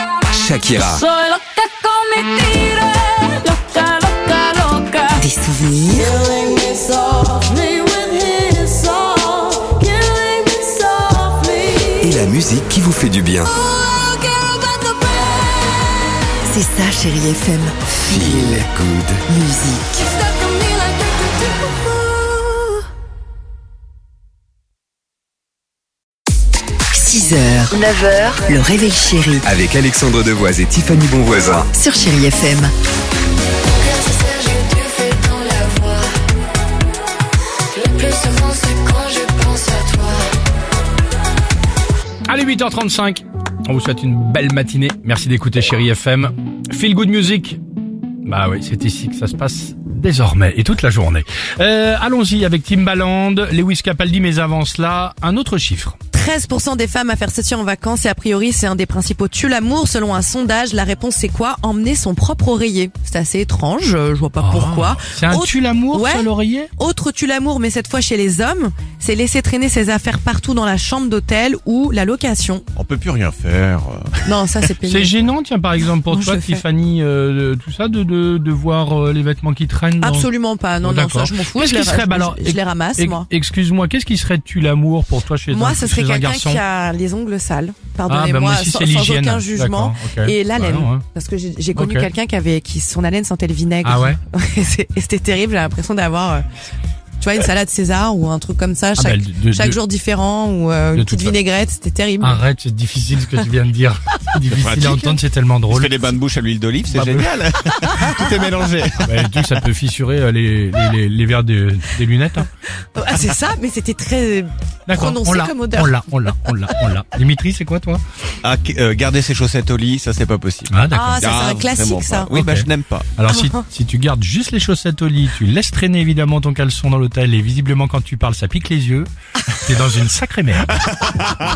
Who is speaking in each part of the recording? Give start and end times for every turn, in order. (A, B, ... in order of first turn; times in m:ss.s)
0:00.3-0:01.0 A
0:00.7-0:05.2 B
0:05.1-0:06.2 C
0:06.2-0:12.2 B
0:12.0-0:13.5 A
0:13.8-0:16.0 B
0:16.4-0:20.1 C
0:18.1-0:19.2 A
0:20.1-0:21.8 B
0:26.9-0:27.8 C
0:27.7-0:28.5 D
0:28.4-0:29.4 C
0:29.4-0:31.7 A
0:31.7-0:32.7 C
0:33.7-0:36.1 D
0:37.7-0:40.2 D
0:42.2-0:47.6 E
0:48.2-0:56.0 E
0:56.1-1:12.6 F
1:04.4-1:06.7 E
1:12.8-1:14.1 G
1:14.2-1:15.1 F
1:14.8-1:20.3 E
1:16.1-1:16.6 F
1:20.0-1:23.3 F
1:20.8-1:26.6 E
1:25.5-1:36.4 F
1:28.1-1:31.0 E
1:31.8-1:32.1 E
1:33.8-1:34.2 E
1:37.2-1:42.4 F
1:39.0-1:39.8 E
1:40.9-1:41.4 E
1:42.2-1:46.1 E
1:44.5-1:45.2 G
1:45.7-1:49.3 G
1:46.9-1:47.6 E
1:49.0-1:52.5 E
1:52.9-1:56.5 F
1:54.9-1:58.0 E
1:58.4-2:03.1 G
2:00.7-2:01.3 E
2:00.9-2:02.3 F
2:02.3-2:11.1 E
2:03.3-2:03.6 F